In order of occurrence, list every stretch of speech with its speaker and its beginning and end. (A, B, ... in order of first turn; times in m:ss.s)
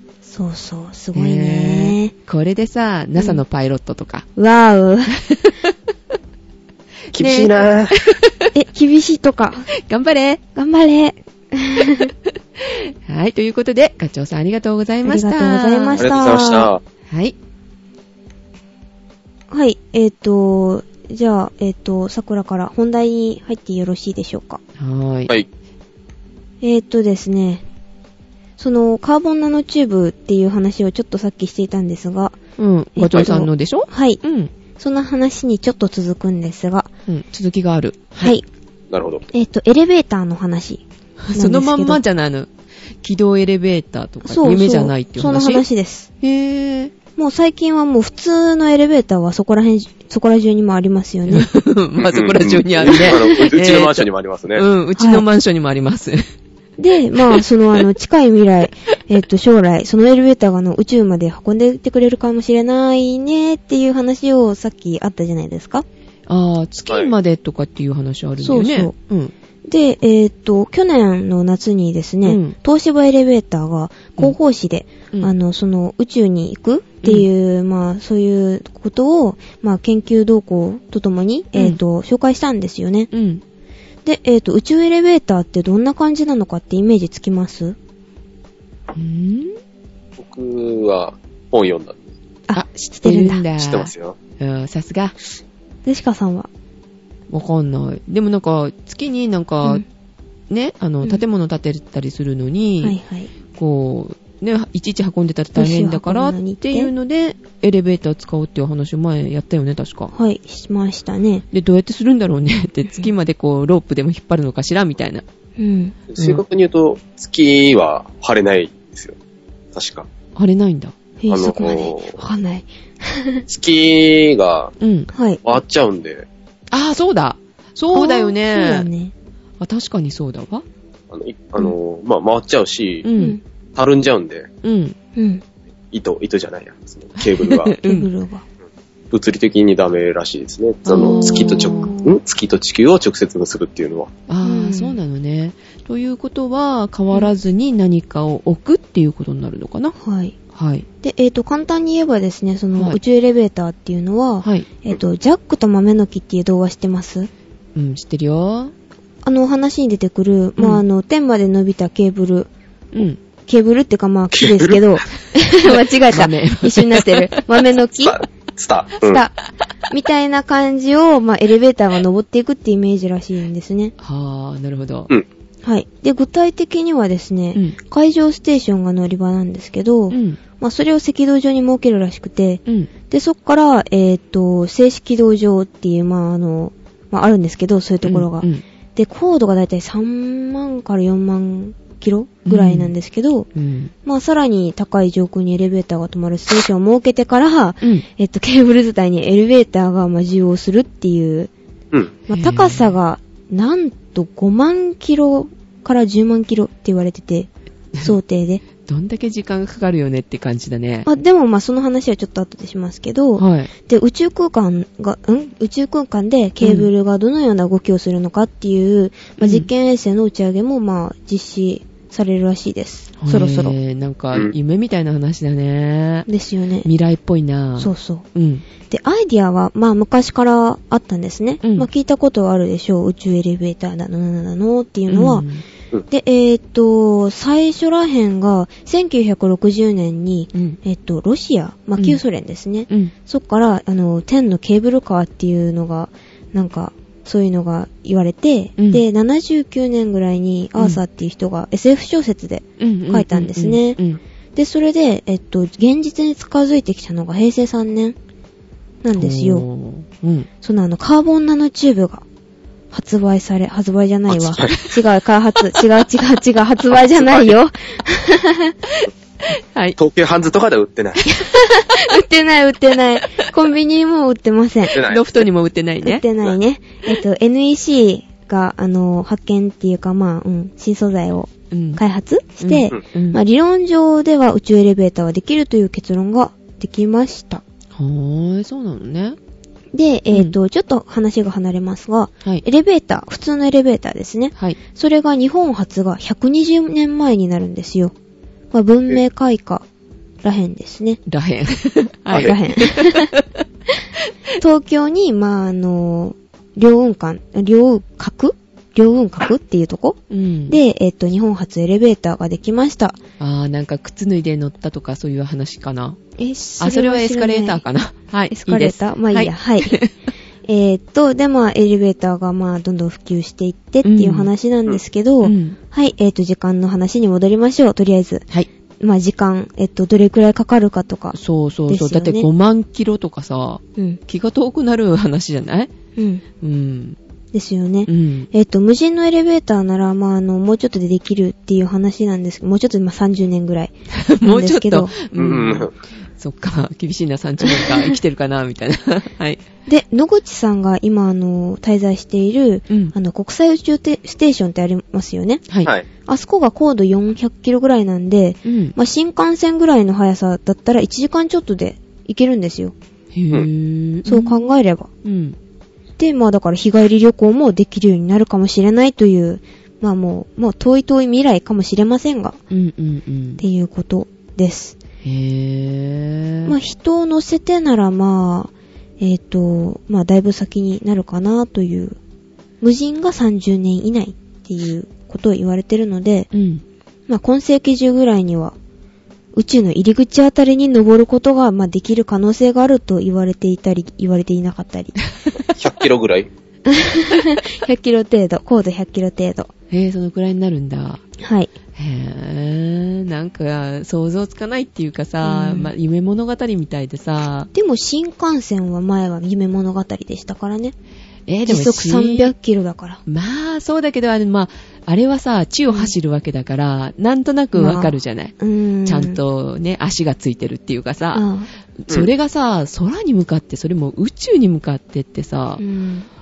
0:00.2-0:02.1 A
0:01.1-0:04.3 B
0:04.4-0:05.2 A
0:05.3-0:05.7 B
0:07.1-0:08.5 B
0:07.1-0:08.0 C
0:08.5-0:09.7 A
0:09.7-0:10.4 B
0:10.5-0:12.1 A
0:12.6-0:16.1 B
0:15.0-0:16.7 A
0:16.0-0:16.8 C
0:17.1-0:17.4 B
0:19.5-0:24.6 A
0:24.8-0:25.3 B
0:26.6-0:27.6 A
0:28.6-0:32.4 A
0:32.6-0:34.5 B
0:33.0-0:34.2 A
0:34.8-0:36.9 A
0:37.1-0:38.4 B
0:38.9-0:39.2 C
0:39.3-0:42.0 A
0:41.2-0:42.5 B
0:43.0-0:45.6 B
0:44.2-0:46.1 A
0:46.2-0:46.9 B
0:47.2-0:51.5 A
0:51.3-0:56.2 B
0:52.0-0:54.6 C
0:55.0-0:55.2 A
0:56.8-1:05.8 A
1:06.3-1:09.3 B
1:06.9-1:07.1 C
1:08.4-1:08.9 A
1:09.6-1:23.1 A
1:12.2-1:12.6 B
1:17.0-1:17.3 B
1:23.1-1:23.4 B
1:24.0-1:27.8 A
1:28.9-1:29.6 B
1:30.2-1:32.0 C
1:32.5-1:33.4 A
1:32.5-1:35.1 B
1:33.6-1:34.2 C
1:35.8-1:36.5 A
1:37.3-1:39.8 B
1:40.5-1:43.0 B
1:42.8-1:43.3 A
1:43.5-1:50.1 B
1:45.5-1:46.9 A
1:50.1-1:51.4 A
1:51.5-1:55.2 B
1:55.6-1:56.0 A
1:56.1-1:59.1 C
1:59.7-2:00.0 C
2:00.4-2:00.9 B
2:01.2-2:03.4 A
2:01.3-2:02.2 C
2:03.5-2:04.7 C
2:04.8-2:05.1 B
2:05.1-2:05.4 A
2:05.4-2:06.3 C
2:06.7-2:08.9 B
2:07.9-2:09.1 A
2:09.6-2:10.6 B
2:11.1-2:13.1 C
2:13.0-2:13.4 B
2:13.8-2:14.5 C
2:14.6-2:15.0 B
2:15.2-2:15.4 A
2:15.9-2:17.8 C
2:17.2-2:18.1 B
2:17.8-2:18.4 A
2:19.1-2:24.1 C
2:20.8-2:21.9 B
2:20.9-2:22.2 A
2:24.3-2:29.9 B
2:24.4-2:25.0 A
2:30.0-2:30.4 A
2:30.5-2:30.8 B
2:31.0-2:37.3 A
2:34.4-2:34.7 B
2:37.7-2:38.7 B
2:39.2-2:42.5 A
2:40.6-2:40.8 B
2:42.9-2:43.2 B
2:43.5-2:48.2 A
2:44.4-2:44.8 C
2:45.6-2:47.4 B
2:48.0-2:49.2 C
2:49.0-2:49.4 A
2:49.9-2:53.9 A
2:54.0-2:55.1 B
2:55.6-3:13.5 A
3:00.1-3:00.4 B
3:02.6-3:02.9 B
3:08.0-3:08.6 B
3:12.4-3:12.9 B
3:13.5-3:13.9 B
3:14.0-3:21.5 A
3:22.3-3:28.6 A
3:22.3-3:23.0 B
3:28.8-3:31.1 B
3:31.1-3:43.7 A
3:33.4-3:33.7 B
3:36.6-3:36.9 B
3:39.4-3:39.7 B
3:43.2-3:46.3 B
3:46.3-3:46.9 A
3:46.8-3:48.6 B
3:47.8-3:48.2 A
3:48.9-3:55.5 A
3:51.6-3:51.9 B
3:55.1-3:55.6 B
3:56.1-4:14.0 A
4:08.8-4:09.0 B
4:12.8-4:14.2 B
4:14.6-4:18.2 A
4:19.0-4:19.6 A
4:19.2-4:20.5 B
4:20.6-4:22.2 A
4:22.9-4:28.7 A
4:24.3-4:24.8 C
4:27.1-4:27.5 C
4:29.5-4:30.0 B
4:30.0-4:31.2 C
4:31.3-4:35.0 A
4:34.9-4:35.5 C
4:35.0-4:36.2 B
4:36.0-4:47.6 A
4:41.7-4:42.0 B
4:42.6-4:43.4 B
4:47.9-4:49.4 B
4:49.9-4:58.1 A
4:58.7-4:59.8 A
5:00.4-5:01.2 A
5:01.3-5:03.6 B
5:02.3-5:03.3 A
5:04.6-5:13.2 A
5:10.3-5:10.8 B
5:13.4-5:16.2 B
5:16.4-5:17.8 A
5:16.8-5:20.1 B
5:18.5-5:20.0 A
5:20.6-5:28.4 A
5:24.0-5:24.5 B
5:25.4-5:25.8 B
5:29.0-5:31.4 A
5:31.3-5:35.9 B
5:31.9-5:32.5 A
5:36.2-5:36.4 A
5:36.6-5:37.2 B
5:37.5-5:45.1 A
5:38.1-5:38.5 B
5:44.2-5:49.6 B
5:45.3-5:45.9 C
5:47.6-5:48.1 A
5:49.9-5:55.6 A
5:52.9-5:53.1 B
5:56.2-6:02.9 A
5:58.6-5:58.9 B
6:03.3-6:04.6 B
6:04.2-6:05.1 A
6:05.2-6:05.6 B
6:06.2-6:12.6 A
6:12.7-6:13.6 B
6:13.6-6:15.0 A
6:15.2-6:16.7 B
6:16.6-6:22.2 A
6:22.8-6:26.5 A
6:26.5-6:26.8 B
6:27.3-6:28.7 A
6:29.5-6:35.2 A
6:35.8-6:36.5 C
6:36.9-6:39.7 A
6:39.9-6:41.2 B
6:41.4-6:41.7 A
6:42.0-6:47.7 B
6:45.4-6:45.9 A
6:47.7-6:50.9 A
6:51.5-6:52.5 B
6:51.6-6:53.2 A
6:53.2-7:01.4 B
6:57.7-6:59.4 A
7:01.3-7:01.7 A
7:02.0-7:05.8 B
7:05.8-7:06.3 A